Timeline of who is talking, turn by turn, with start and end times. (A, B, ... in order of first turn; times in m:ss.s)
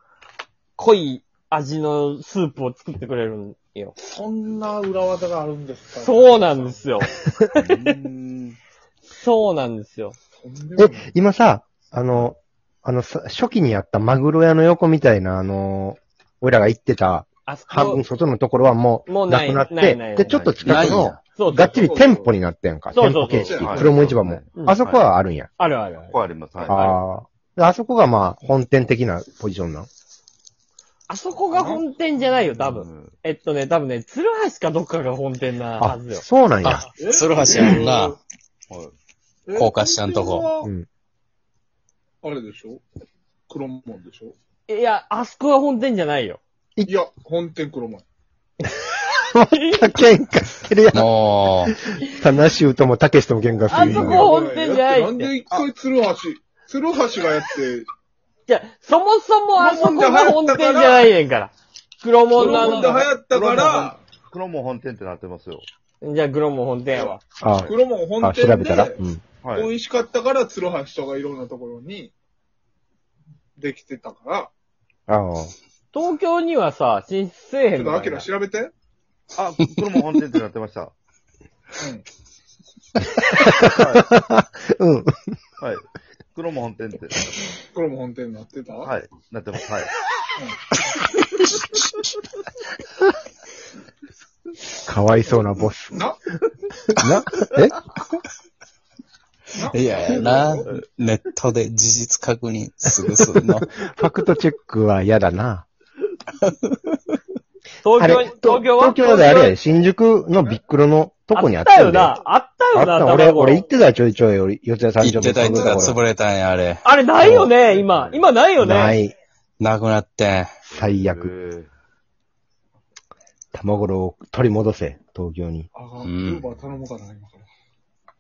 0:00.8-0:03.9 A
0:04.0-0:06.9 B
0:05.9-0:08.0 A
0:07.6-0:08.6 C
0:09.1-0:10.2 A
0:10.4-0:11.1 B
0:10.8-0:25.5 D
0:17.5-0:18.0 A
0:19.1-0:20.4 A
0:20.2-0:21.2 C
0:20.6-0:21.2 E
0:21.4-0:21.9 A
0:21.6-0:22.4 B
0:22.9-0:23.7 A
0:23.4-0:23.8 B
0:23.6-0:25.0 C
0:25.6-0:26.2 A
0:26.1-0:26.8 C
0:26.6-0:29.9 D
0:26.7-0:27.0 A
0:31.1-0:36.2 A
0:31.5-0:31.8 B
0:32.6-0:33.1 C
0:35.8-0:36.9 D
0:36.6-0:38.2 E
0:37.0-0:38.2 B
0:38.7-0:39.0 C
0:39.5-0:40.7 B
0:39.6-0:40.5 E
0:42.2-0:42.8 B
0:43.5-0:44.4 B
0:44.7-0:46.4 A
0:46.9-0:48.0 B
0:49.3-0:54.3 D
0:49.6-0:49.9 A
0:50.9-0:51.7 E
0:53.7-0:55.3 A
0:53.9-0:57.9 B
0:58.5-1:03.9 A
0:59.6-1:01.1 B
1:02.4-1:04.1 B
1:03.3-1:05.7 C
1:06.0-1:07.2 A
1:06.9-1:12.1 B
1:07.4-1:09.2 D
1:09.4-1:09.7 C
1:13.6-1:14.5 B
1:15.1-1:15.5 D
1:15.9-1:18.3 A
1:17.7-1:18.7 B
1:19.4-1:20.9 C
1:21.8-1:22.0 B
1:23.0-1:25.2 D
1:23.7-1:24.1 C
1:25.6-1:27.3 C
1:27.6-1:28.9 B
1:28.8-1:29.9 C
1:34.8-1:36.0 D
1:35.9-1:36.2 B
1:37.0-1:37.8 D
1:39.5-1:40.8 B
1:39.7-1:43.7 E
1:43.4-1:45.7 D
1:47.8-1:49.6 A
1:48.0-1:52.2 D
1:51.3-1:53.7 A
1:52.8-1:56.0 D
1:55.0-1:57.5 E
1:56.8-1:59.0 A
1:57.9-1:58.3 C
1:58.6-1:59.1 D
1:59.6-2:00.5 E
2:00.7-2:01.3 D
2:00.7-2:01.7 C
2:03.5-2:05.7 D
2:05.7-2:07.5 B
2:06.0-2:06.5 E